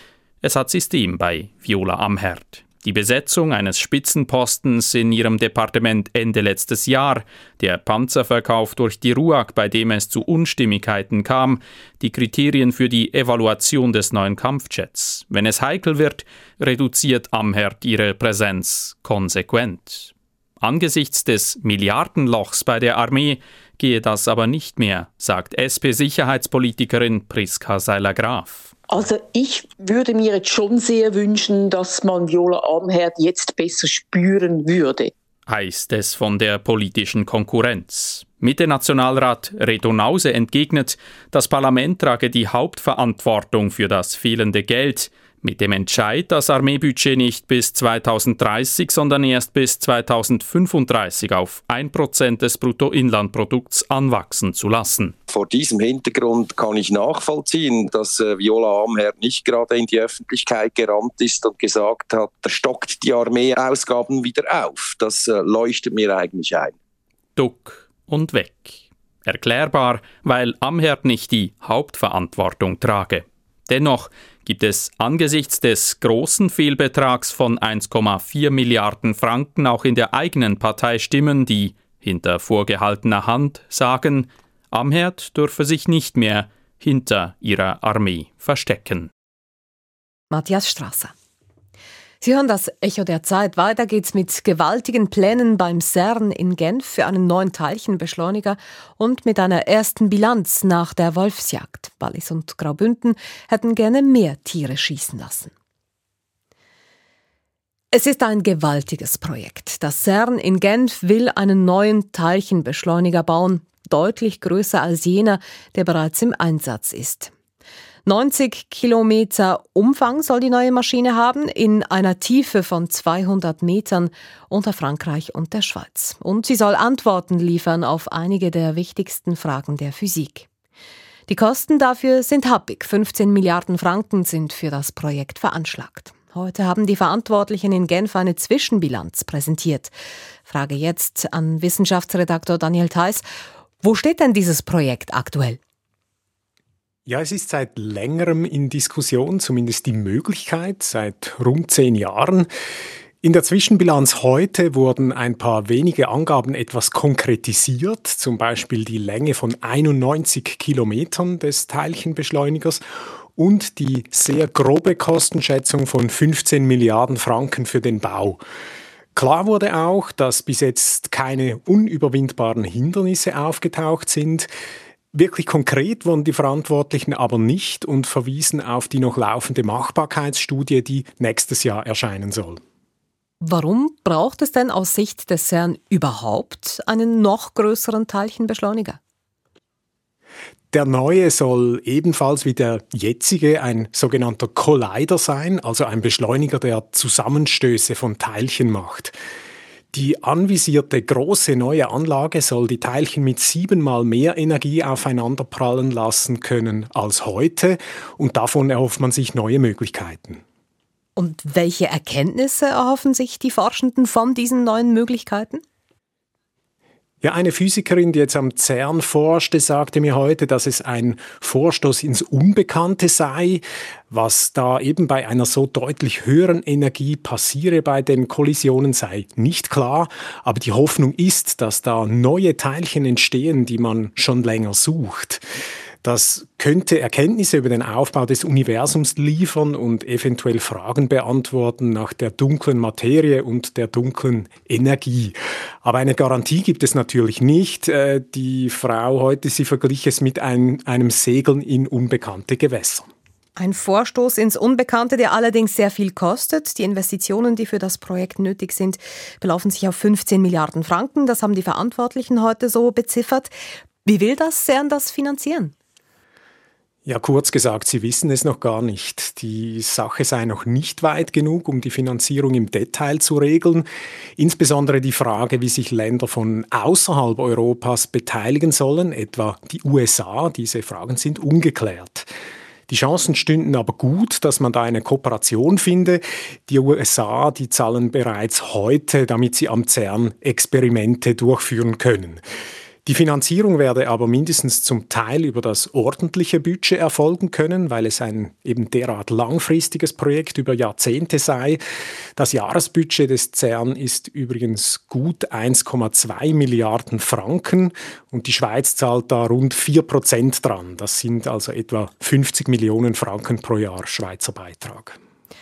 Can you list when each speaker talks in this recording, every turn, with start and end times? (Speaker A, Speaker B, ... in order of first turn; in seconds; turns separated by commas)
Speaker A: 0.4-28.7, Speaker B: 28.9-35.1, Speaker A: 35.5-55.2, Speaker C: 55.3-66.8, Speaker A: 67.4-89.1, Speaker D: 90.3-91.1, Speaker D: 92.2-105.5, Speaker D: 107.9-117.3, Speaker D: 118.0-130.5, Speaker D: 131.3-139.9, Speaker D: 140.5-143.3, Speaker D: 143.8-145.6, Speaker E: 147.1-152.5, Speaker E: 153.2-162.8, Speaker E: 163.4-168.4, Speaker E: 169.2-174.5, Speaker E: 175.1-182.6, Speaker D: 183.4-189.0, Speaker E: 190.7-199.2, Speaker E: 199.9-210.4, Speaker D: 211.2-215.6, Speaker E: 217.2-235.4, Speaker E: 236.0-253.1, Speaker D: 253.6-263.5, Speaker D: 264.1-265.7, Speaker E: 267.1-273.9, Speaker E: 274.4-282.3, Speaker E: 282.9-292.4, Speaker E: 293.1-301.8, Speaker E: 302.4-315.2